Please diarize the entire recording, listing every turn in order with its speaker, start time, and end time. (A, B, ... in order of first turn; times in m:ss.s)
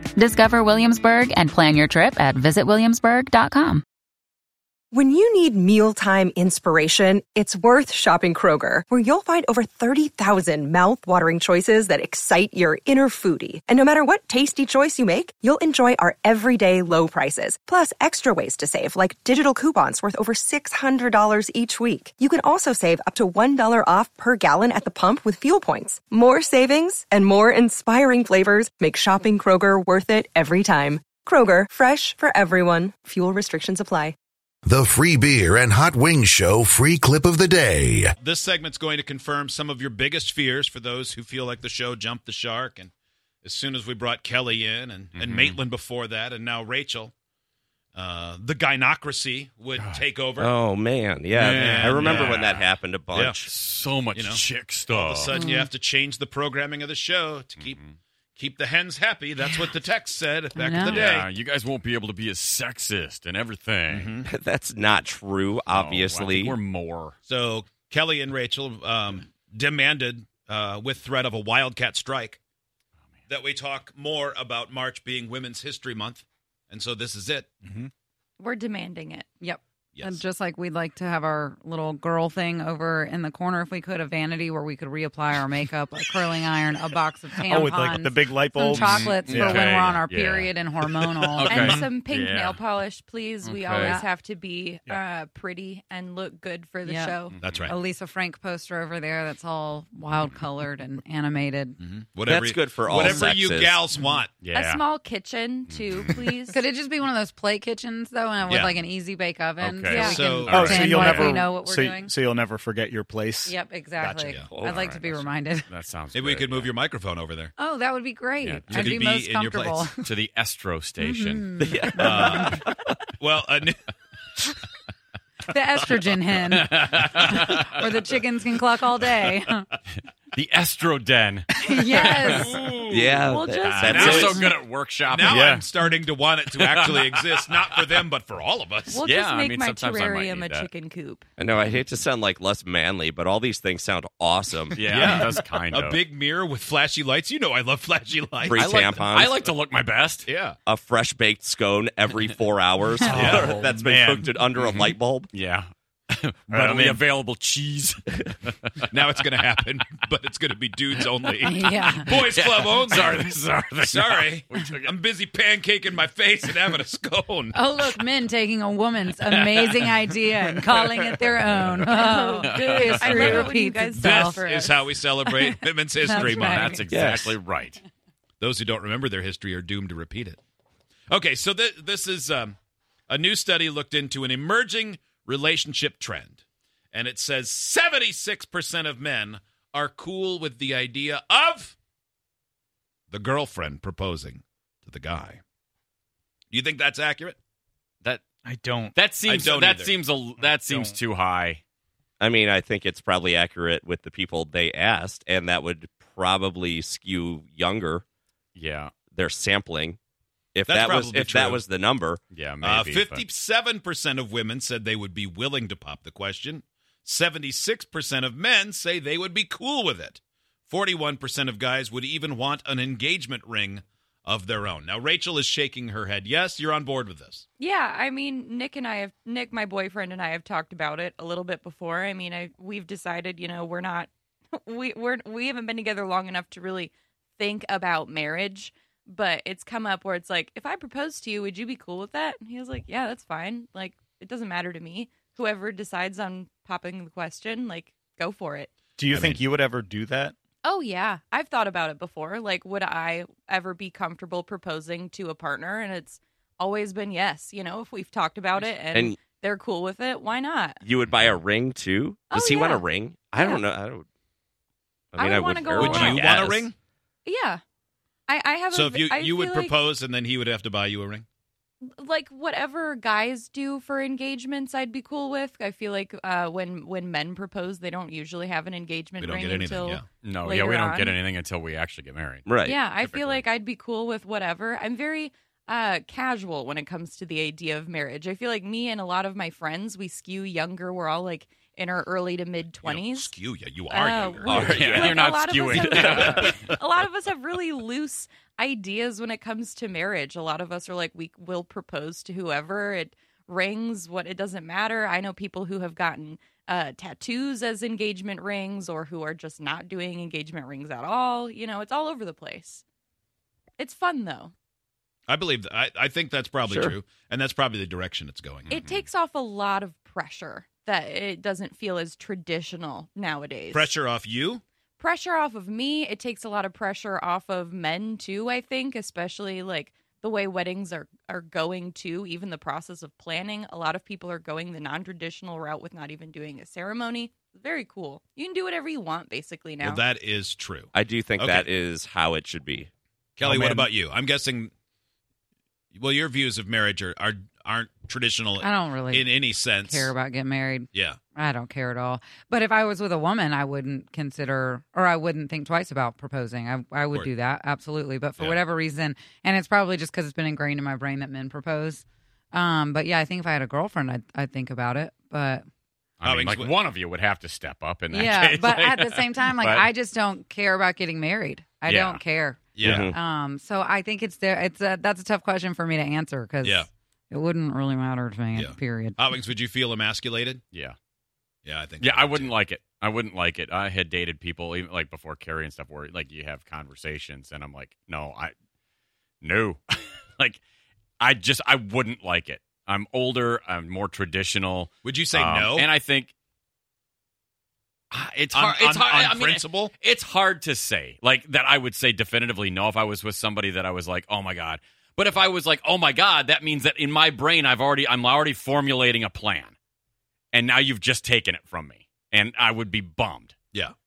0:00.2-0:03.8 A
0:04.9-0:34.2 B
0:34.7-0:38.1 C
0:38.2-0:42.9 D
0:43.4-0:47.1 D
0:45.2-0:45.6 E
0:48.0-0:50.5 D
0:49.8-0:50.0 E
0:50.4-0:53.4 F
0:51.3-0:52.7 E
0:51.3-0:52.5 D
0:53.1-0:53.4 D
0:53.4-0:55.3 E
0:54.1-0:57.8 D
0:55.3-0:55.7 G
0:57.6-0:58.0 E
0:58.4-1:01.3 D
1:00.6-1:01.1 G
1:00.9-1:04.1 E
1:03.9-1:04.3 D
1:04.2-1:06.6 F
1:05.7-1:07.2 E
1:07.3-1:12.4 D
1:13.3-1:17.5 D
1:17.6-1:17.9 H
1:18.4-1:19.3 I
1:19.4-1:31.8 G
1:20.0-1:20.2 D
1:27.3-1:29.6 H
1:28.8-1:30.5 E
1:31.4-1:32.6 E
1:31.4-1:37.4 I
1:33.4-1:34.0 E
1:33.7-1:34.1 G
1:36.8-1:41.8 G
1:37.3-1:37.7 E
1:37.4-1:37.8 D
1:41.8-1:44.3 D
1:42.2-1:43.8 F
1:44.4-1:44.9 E
1:44.5-1:46.6 I
1:45.7-1:46.3 E
1:46.5-1:52.1 G
1:48.5-1:48.8 D
1:49.6-1:51.4 E
1:49.9-1:50.2 I
1:50.0-1:50.7 D
1:50.5-1:54.4 H
1:53.5-1:55.7 G
1:54.4-1:54.8 F
1:54.7-1:56.8 E
1:56.1-1:57.5 D
1:57.6-2:00.0 G
1:58.4-1:59.0 E
1:58.7-1:59.9 D
2:00.0-2:01.6 E
2:01.0-2:02.6 G
2:01.6-2:03.0 F
2:02.0-2:02.4 D
2:03.2-2:03.8 D
2:05.5-2:09.7 G
2:06.5-2:07.8 E
2:10.3-2:12.8 E
2:11.6-2:12.5 G
2:12.0-2:13.2 D
2:12.9-2:14.4 F
2:13.2-2:14.3 I
2:13.6-2:15.6 E
2:13.9-2:14.5 D
2:15.1-2:19.0 D
2:15.3-2:15.6 H
2:16.5-2:18.0 E
2:18.9-2:21.2 I
2:19.0-2:20.7 E
2:21.4-2:24.9 F
2:24.7-2:26.0 E
2:24.8-2:29.0 D
2:28.4-2:29.5 F
2:28.5-2:30.3 E
2:30.3-2:30.6 D
2:30.7-2:35.3 F
2:33.0-2:33.6 D
2:33.1-2:34.4 H
2:34.6-2:39.5 E
2:36.5-2:37.0 D
2:38.9-2:47.6 D
2:41.2-2:44.9 E
2:41.4-2:42.1 G
2:47.5-2:54.4 G
2:49.3-2:53.6 E
2:51.9-2:55.5 I
2:53.9-2:56.8 D
2:56.0-2:56.9 G
2:56.1-2:57.8 E
2:56.9-2:57.4 F
2:58.4-3:00.4 D
3:01.1-3:02.6 D
3:03.1-3:06.4 D
3:06.9-3:11.8 D
3:13.1-3:15.4 D
3:16.5-3:17.4 D
3:18.4-3:19.0 H
3:18.9-3:21.6 E
3:19.2-3:20.0 D
3:20.4-3:21.0 H
3:22.2-3:28.0 F
3:28.6-3:28.9 E
3:29.1-3:30.0 F
3:30.6-3:32.2 F
3:30.7-3:31.6 D
3:32.3-3:33.3 E
3:32.6-3:47.4 D
3:47.6-4:08.7 I
4:09.0-4:10.4 H
4:10.6-4:20.8 I
4:18.9-4:19.2 F
4:20.8-4:24.1 F
4:21.1-4:21.4 E
4:22.3-4:22.8 I
4:23.4-4:23.6 I
4:25.1-4:26.7 F
4:25.2-4:26.0 I
4:25.7-4:26.7 D
4:27.3-4:27.6 I
4:28.3-4:29.8 I
4:28.7-4:31.2 D
4:31.9-4:41.2 I
4:39.2-4:40.0 D
4:40.2-4:43.5 E
4:42.4-4:42.8 F
4:42.6-4:53.3 I
4:52.8-4:54.7 D
4:53.9-5:12.8 I
4:54.5-4:55.1 F
4:54.5-4:56.6 E
4:55.8-4:56.5 F
5:13.8-5:14.5 I
5:15.3-5:18.8 D
5:16.6-5:17.0 F
5:18.7-5:19.1 E
5:18.7-5:23.9 I
5:23.7-5:24.6 D
5:25.0-5:40.0 I
5:39.8-5:41.7 D
5:40.9-5:42.9 F
5:43.4-5:44.7 D
5:43.5-5:43.9 H
5:45.9-5:50.1 D
5:48.6-6:05.6 G
6:06.2-6:09.9 E
6:06.2-6:06.7 D
6:08.1-6:19.2 G
6:11.9-6:12.2 E
6:12.8-6:13.1 D
6:12.8-6:13.2 F
6:12.8-6:13.1 E
6:16.6-6:16.9 D
6:18.6-6:20.6 D
6:21.6-6:22.6 D
6:22.0-6:28.5 E
6:29.4-6:30.6 E
6:31.2-6:36.3 E
6:35.0-6:35.9 D
6:38.1-6:49.8 E
6:38.5-6:39.9 D
6:50.5-6:53.6 E